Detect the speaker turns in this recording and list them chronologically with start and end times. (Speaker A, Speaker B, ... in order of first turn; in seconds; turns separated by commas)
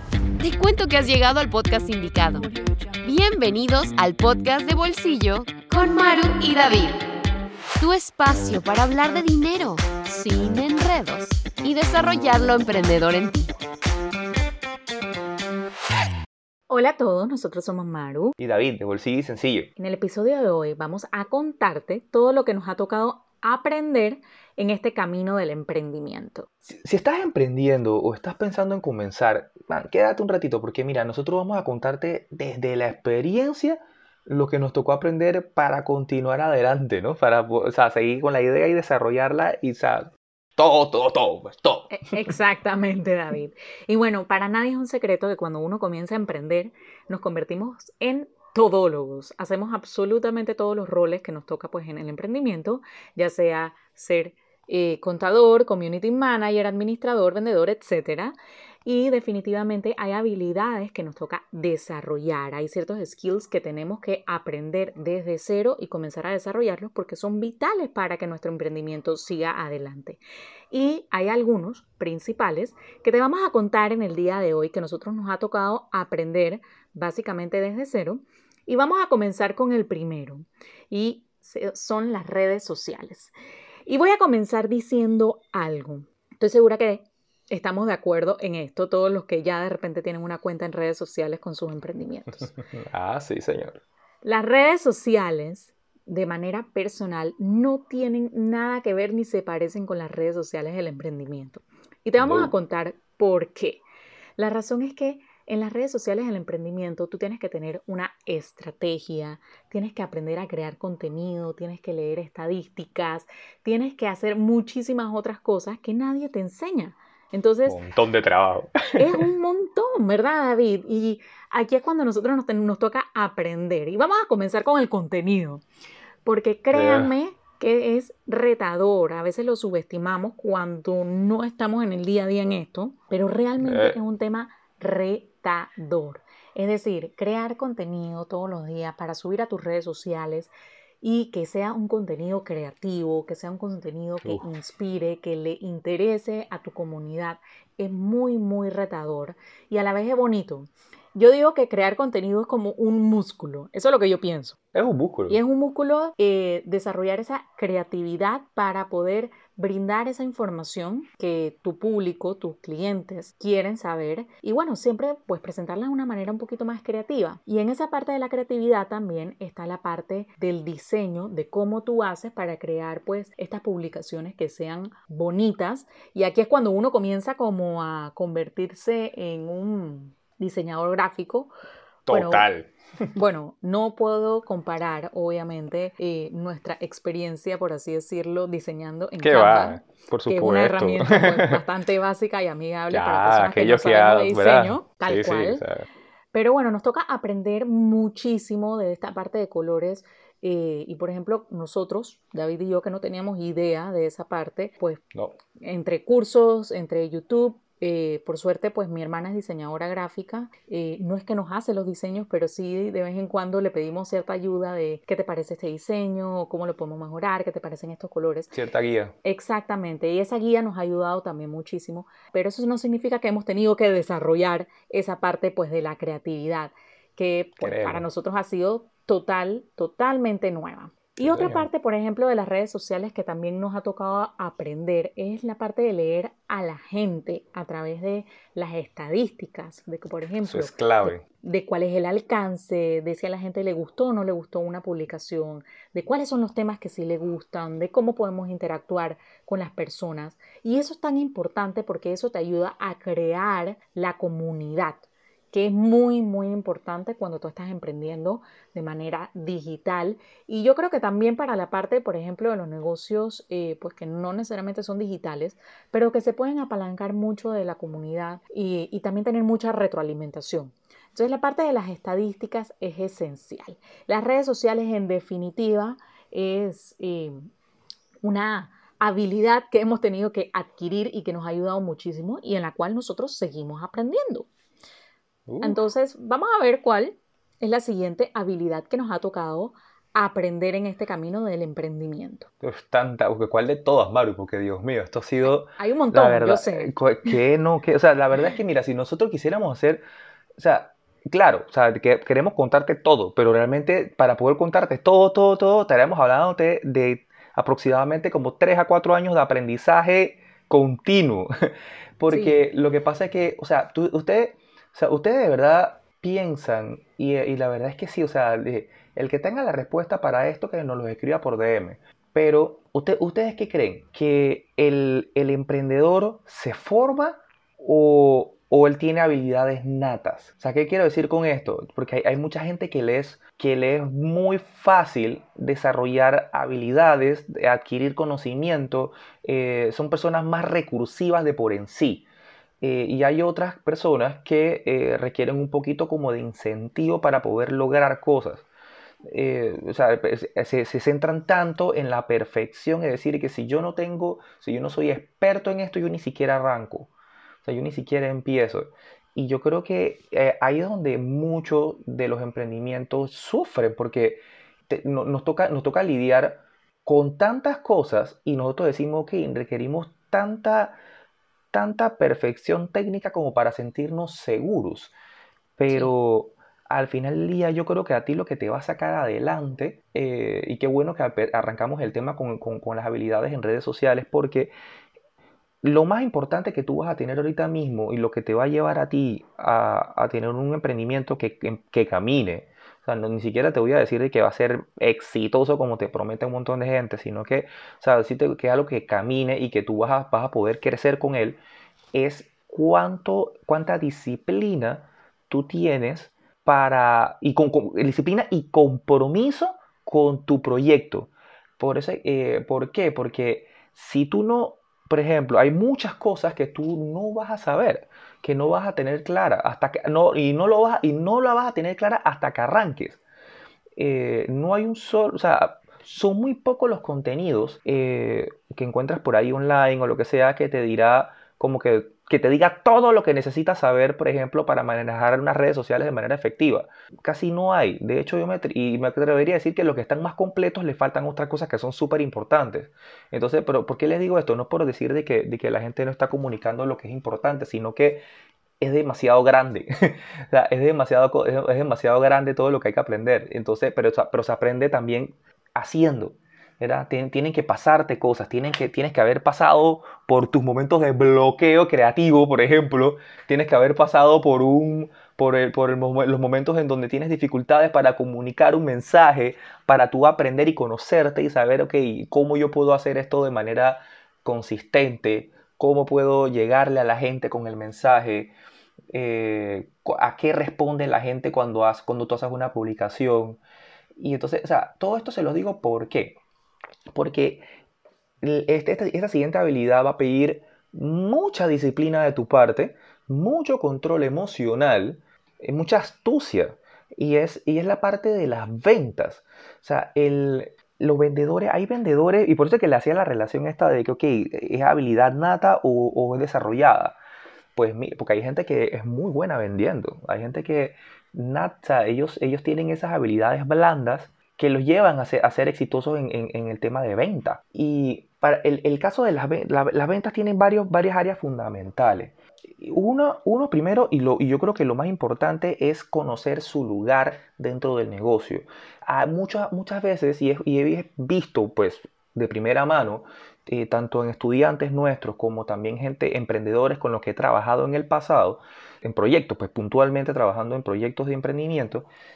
Speaker A: 0.4-2.5, Speaker A: 3.0-7.0, Speaker A: 7.8-13.5, Speaker B: 16.7-18.4, Speaker C: 18.4-19.7, Speaker B: 19.8-26.5, Speaker C: 26.7-42.3, Speaker B: 41.9-83.3, Speaker B: 83.9-92.5, Speaker C: 92.4-93.8, Speaker B: 94.2-103.8, Speaker C: 102.2-102.5, Speaker B: 104.4-117.8, Speaker C: 117.7-119.3, Speaker B: 119.0-125.6, Speaker B: 126.2-154.6, Speaker C: 126.7-127.1, Speaker C: 133.6-134.0, Speaker C: 154.7-155.4, Speaker B: 155.3-181.5, Speaker C: 182.1-182.7, Speaker B: 182.1-182.5, Speaker B: 183.2-195.7, Speaker C: 189.2-191.6, Speaker C: 192.9-195.9, Speaker B: 196.3-205.0, Speaker B: 205.6-218.6, Speaker C: 218.5-219.2, Speaker B: 219.2-277.4, Speaker C: 227.6-228.1, Speaker C: 231.2-231.7, Speaker C: 240.4-241.2, Speaker B: 278.2-284.5, Speaker C: 285.5-285.8, Speaker B: 285.6-292.5, Speaker C: 292.6-300.0, Speaker B: 295.4-297.4, Speaker C: 300.6-311.5, Speaker C: 312.2-342.3, Speaker B: 312.3-312.6, Speaker C: 342.8-348.7, Speaker C: 349.3-357.1, Speaker C: 357.6-371.0, Speaker C: 371.7-375.1, Speaker C: 375.8-384.7, Speaker B: 375.9-376.1, Speaker C: 385.8-401.6, Speaker C: 402.1-423.2, Speaker C: 424.0-448.2, Speaker C: 448.8-478.5, Speaker C: 479.1-483.6, Speaker C: 484.2-486.4, Speaker C: 487.1-487.6, Speaker C: 488.4-507.2, Speaker C: 507.8-542.1